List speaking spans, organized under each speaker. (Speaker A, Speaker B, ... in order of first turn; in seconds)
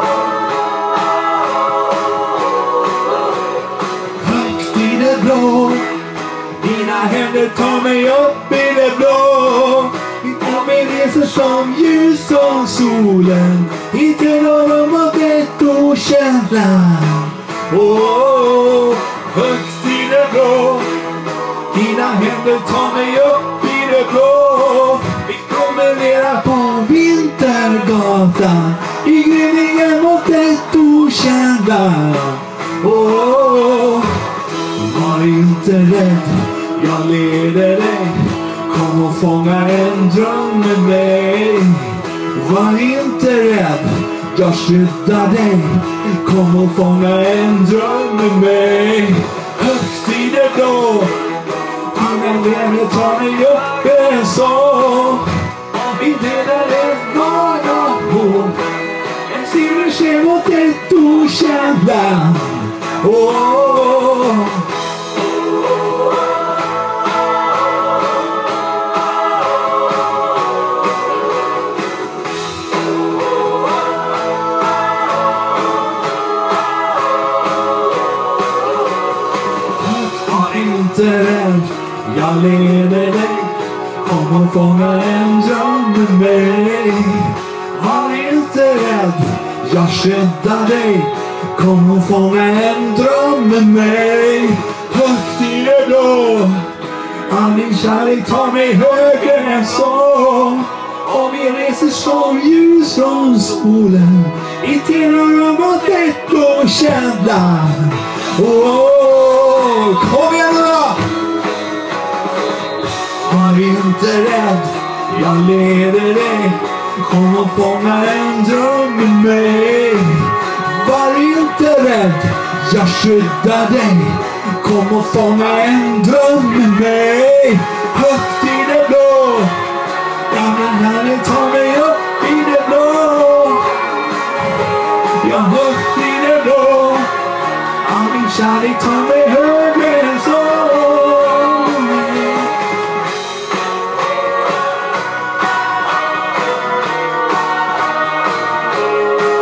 Speaker A: 4.2-6.0, 6.6-21.0, 21.7-51.2, 51.9-58.6, 59.2-64.7, 79.7-96.8, 97.3-111.1, 113.2-129.7, 130.3-133.8, 135.2-137.1, 137.8-142.6